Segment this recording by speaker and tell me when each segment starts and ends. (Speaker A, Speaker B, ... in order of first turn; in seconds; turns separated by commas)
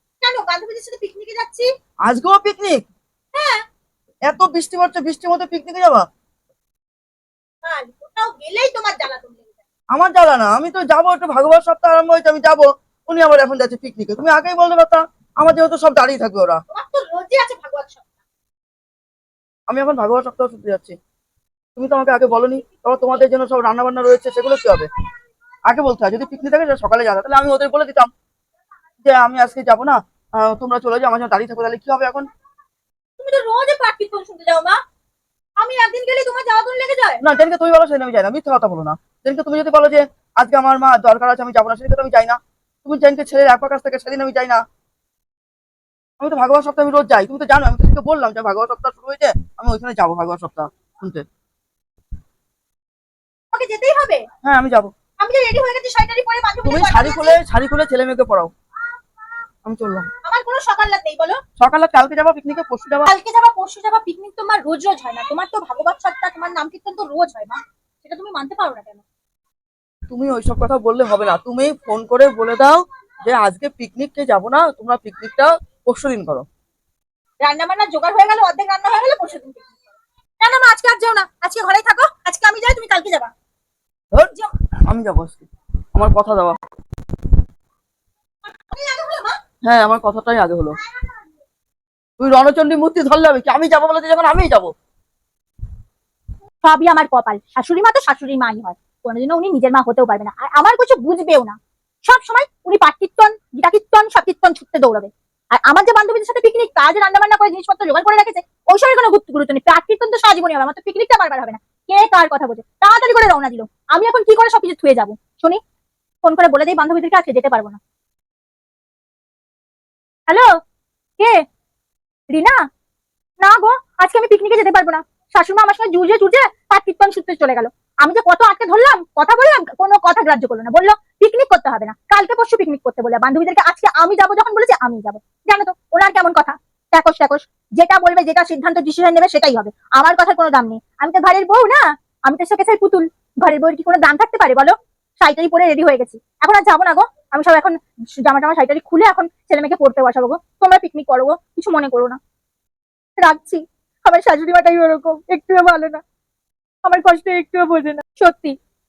Speaker A: 0.2-1.7, Speaker B: 2.0-2.9, Speaker A: 3.3-3.6, Speaker B: 4.2-6.1, Speaker A: 7.6-9.5, Speaker B: 9.9-16.6, Speaker A: 16.7-18.0, Speaker B: 19.7-20.9, Speaker B: 21.8-24.9, Speaker B: 25.7-28.1, Speaker B: 29.0-32.3, Speaker A: 33.2-34.8, Speaker A: 35.6-37.2, Speaker B: 37.2-44.6, Speaker B: 46.2-51.2, Speaker A: 53.5-54.2, Speaker B: 54.4-54.9, Speaker A: 55.2-57.4, Speaker B: 56.6-58.5, Speaker B: 59.6-60.1, Speaker A: 60.2-61.4, Speaker B: 61.6-63.1, Speaker A: 63.0-69.0, Speaker B: 70.1-76.5, Speaker A: 77.4-79.8, Speaker A: 80.4-83.3, Speaker B: 84.1-86.6, Speaker A: 88.5-89.4, Speaker B: 89.6-90.8, Speaker B: 92.2-94.7, Speaker A: 96.6-115.6, Speaker A: 116.2-117.8, Speaker A: 120.3-120.5, Speaker A: 121.2-121.4, Speaker A: 122.3-122.6, Speaker A: 123.4-152.2, Speaker A: 153.2-156.0, Speaker A: 156.8-158.6